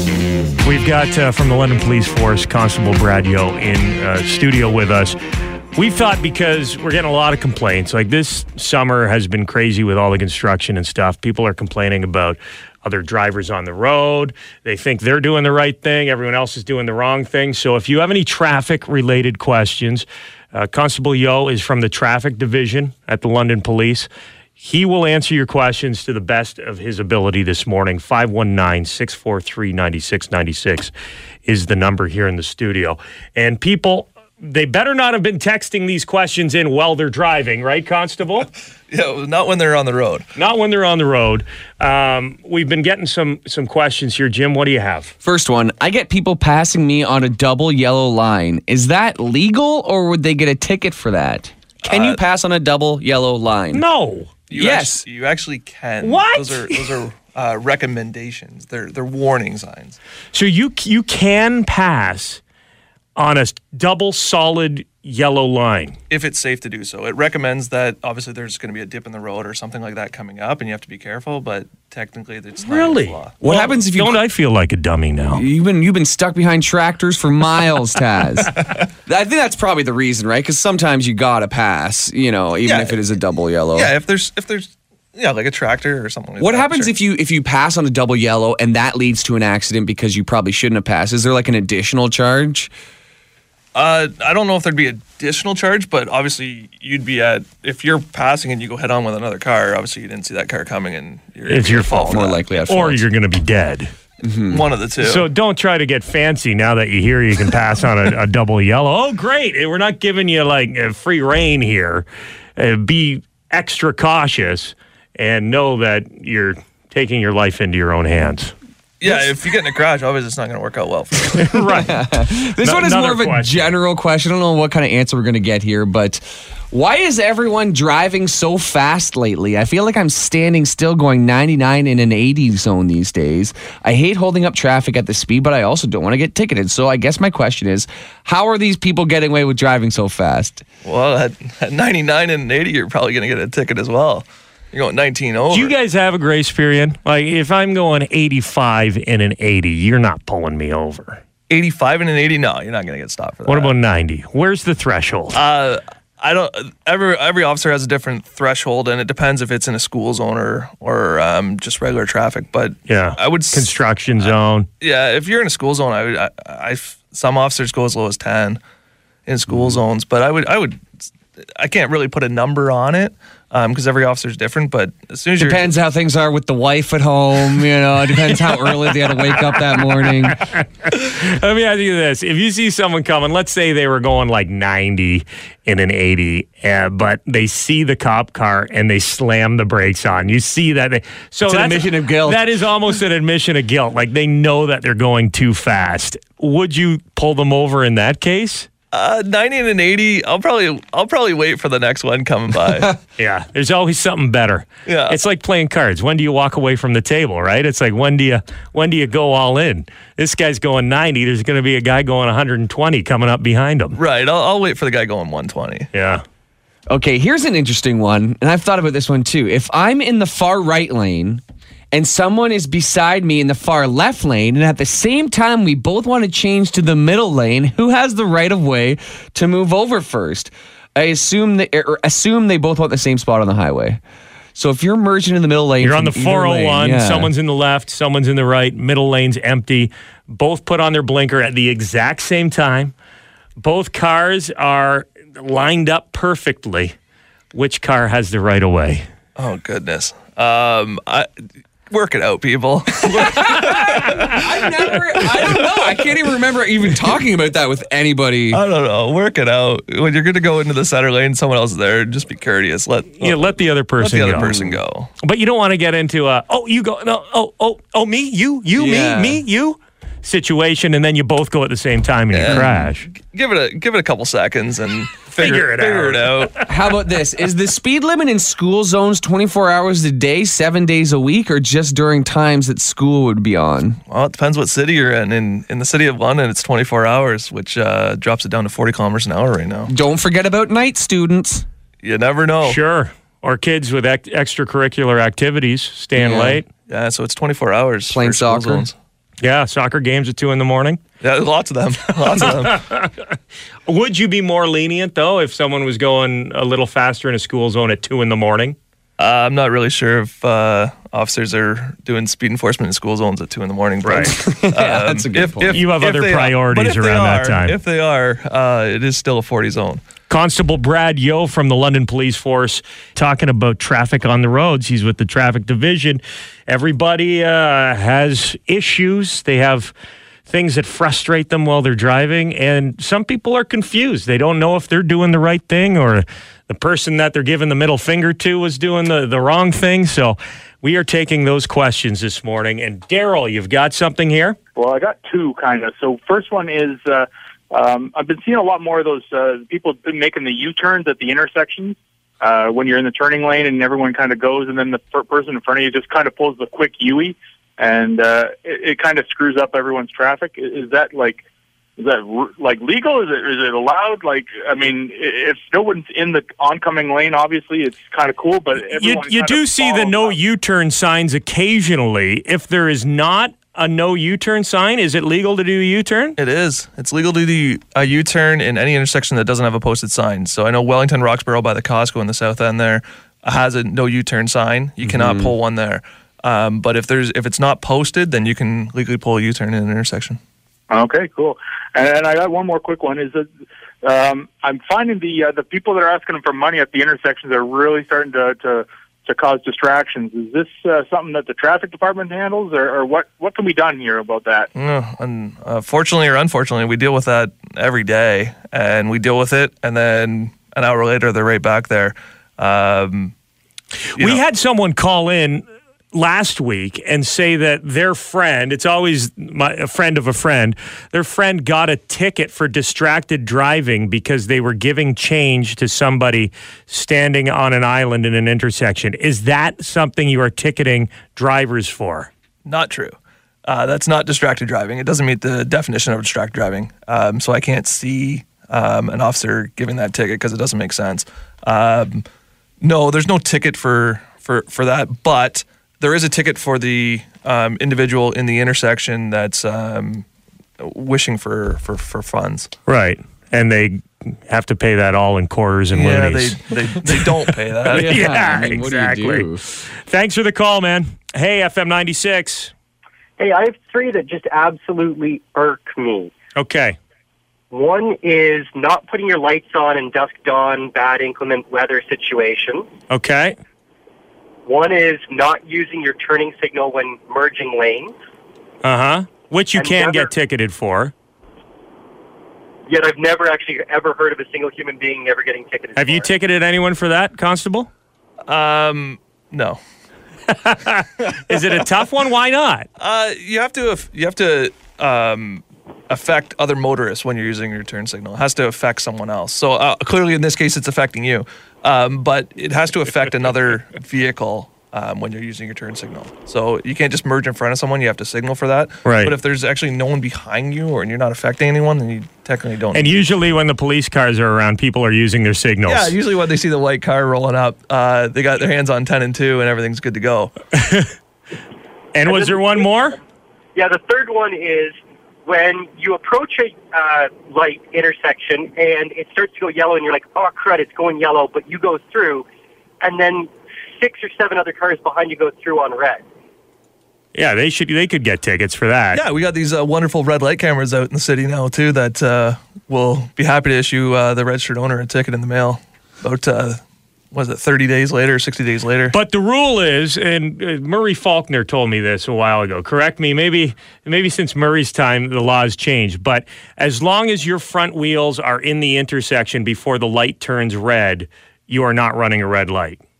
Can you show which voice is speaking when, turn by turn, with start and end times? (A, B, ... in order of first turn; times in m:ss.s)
0:00.6-0:05.2 A
0:05.8-0:30.9 A
0:31.4-0:38.5 A
0:38.9-0:40.3 B
0:40.4-0:45.1 A
0:45.2-0:53.8 C
0:51.8-0:52.2 B
0:53.7-0:54.3 A
0:54.5-1:00.0 B
0:54.5-0:55.0 C
0:56.0-0:56.8 A
1:00.3-1:02.4 A
1:03.2-1:05.9 A
1:06.1-1:13.3 B
1:12.6-1:15.4 A
1:13.4-1:14.2 C
1:15.3-1:23.9 C
1:22.6-1:23.0 B
1:23.7-1:26.9 B
1:26.4-1:32.7 C
1:33.7-1:42.5 B
1:41.5-1:43.9 A
1:42.1-1:43.0 C
1:44.2-1:44.6 C
1:44.5-1:45.3 B
1:45.0-1:58.5 A
1:59.0-2:01.8 B
2:01.3-2:03.7 A
2:01.8-2:20.6 C
2:20.8-2:25.7 B
2:25.5-2:31.2 A
2:31.5-2:33.7 B
2:33.5-2:35.4 A
2:35.3-2:48.6 B
2:42.9-2:44.7 A
2:49.2-2:55.7 B
2:55.4-3:00.4 C
3:00.2-3:18.7 A
3:11.4-3:12.4 C
3:18.9-3:22.9 B
3:23.2-3:34.0 A
3:24.8-3:25.2 B
3:34.0-3:35.9 B
3:35.9-3:36.2 A
3:36.9-3:54.0 C
3:54.6-3:57.3 C
3:55.8-4:02.9 A
4:03.6-4:06.9 A
4:07.5-4:09.0 A
4:09.4-4:11.3 B
4:11.9-4:14.4 B
4:13.4-4:18.6 C
4:15.3-4:15.9 B
4:18.5-4:25.1 B
4:23.2-4:24.5 A
4:24.4-4:24.8 C
4:25.2-4:33.1 A
4:28.7-4:29.4 C
4:32.3-4:36.6 B
4:32.5-4:32.9 C
4:35.4-4:36.5 A
4:36.7-4:44.0 C
4:44.1-4:49.9 B
4:49.9-4:51.6 C
4:52.0-4:52.8 B
4:52.6-4:56.6 A
4:56.1-4:56.6 C
4:56.9-4:58.9 B
4:58.1-4:58.9 C
4:59.4-5:01.0 A
5:01.2-5:02.8 B
5:02.5-5:03.1 A
5:03.9-5:08.8 A
5:09.2-5:20.0 B
5:14.0-5:14.3 A
5:14.3-5:15.8 C
5:15.7-5:17.8 A
5:20.3-5:29.9 A
5:30.5-5:44.6 A
5:44.8-6:01.4 D
6:02.0-6:10.4 D
6:08.8-6:16.4 A
6:16.4-6:30.4 B
6:25.0-6:25.5 C
6:30.9-6:33.5 D
6:34.0-6:44.7 D
6:44.7-6:53.3 B
6:54.1-7:12.3 A
7:12.6-7:22.2 B
7:22.8-7:30.2 B
7:30.8-7:32.7 B
7:32.9-7:36.6 A
7:35.9-7:38.2 B
7:37.9-7:39.6 C
7:37.9-7:42.7 A
7:43.4-7:46.3 E
7:46.5-7:47.0 A
7:47.7-7:52.9 E
7:53.1-7:53.6 A
7:54.6-7:58.1 E
7:58.8-8:01.1 A
7:59.7-8:00.3 E
8:02.8-8:06.3 E
8:05.9-8:07.9 A
8:08.5-8:09.8 B
8:10.5-8:12.9 A
8:13.0-8:33.2 B
8:29.0-8:29.3 A
8:32.9-8:36.1 A
8:35.8-8:40.5 B
8:40.7-8:41.1 A
8:42.1-8:43.2 A
8:42.3-8:42.6 E
8:43.7-8:52.4 E
8:53.0-8:56.2 E
8:57.3-8:59.2 A
8:59.1-9:09.1 B
9:09.1-9:23.0 A